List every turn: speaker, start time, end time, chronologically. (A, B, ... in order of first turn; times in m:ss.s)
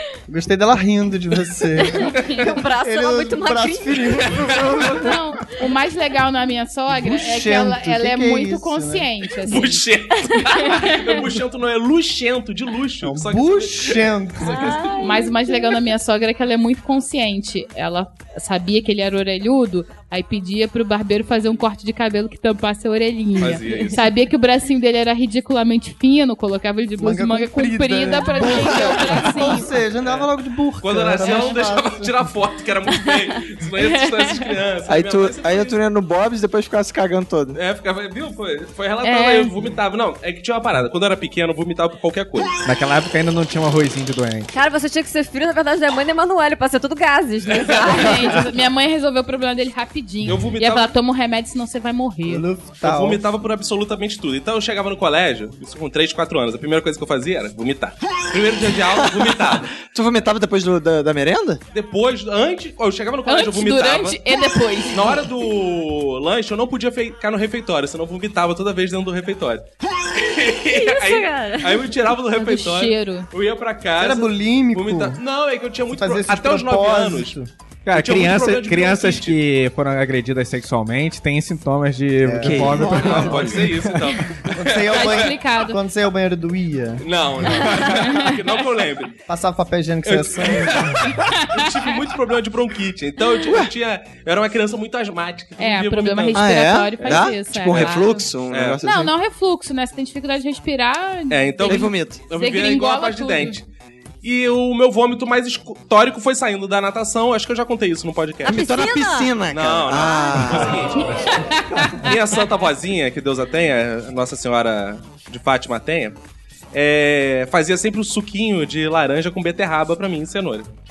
0:00.3-0:05.2 A
0:02.0-0:04.2 B
0:04.3-0:04.8 C
0:04.9-0:09.8 D
0:06.9-0:09.1 A
0:09.4-0:14.7 C
0:10.5-0:11.2 D
0:13.0-0:15.0 A
0:14.4-0:15.8 B
0:15.0-0:29.7 D
0:23.4-0:24.0 C
0:27.0-0:32.3 A
0:30.0-0:30.3 C
0:30.8-0:35.8 C
0:31.2-0:31.5 D
0:33.8-0:34.4 D
0:34.9-0:37.6 E
0:37.5-0:42.5 C
0:39.0-0:39.5 D
0:42.6-0:44.5 F
0:44.5-0:48.5 B
0:47.5-0:48.1 C
0:47.8-0:52.4 D
0:50.2-0:50.9 C
0:52.2-0:53.2 A
0:52.8-0:59.7 C
0:59.8-1:01.6 E
1:01.7-1:04.2 C
1:03.2-1:05.2 D
1:04.9-1:17.4 C
1:10.6-1:11.9 B
1:12.3-1:13.3 D
1:14.0-1:15.2 A
1:15.9-1:17.5 A
1:17.8-1:24.2 F
1:17.9-1:19.4 C
1:22.2-1:23.7 A
1:22.4-1:23.5 E
1:22.9-1:25.3 C
1:24.5-1:27.0 A
1:24.9-1:25.8 D
1:27.0-1:29.1 C
1:27.7-1:28.4 D
1:29.3-1:31.1 A
1:30.0-1:36.4 C
1:31.1-1:31.7 D
1:33.4-1:33.7 E
1:35.6-1:38.2 D
1:36.3-1:39.1 E
1:37.0-1:38.8 C
1:38.8-1:43.6 D
1:41.3-1:43.6 C
1:41.6-1:42.2 E
1:44.2-1:48.7 C
1:48.4-1:49.4 B
1:48.4-1:50.9 E
1:49.5-1:51.2 C
1:49.9-1:50.5 B
1:51.2-1:52.1 D
1:52.0-1:56.2 C
1:56.7-2:00.7 C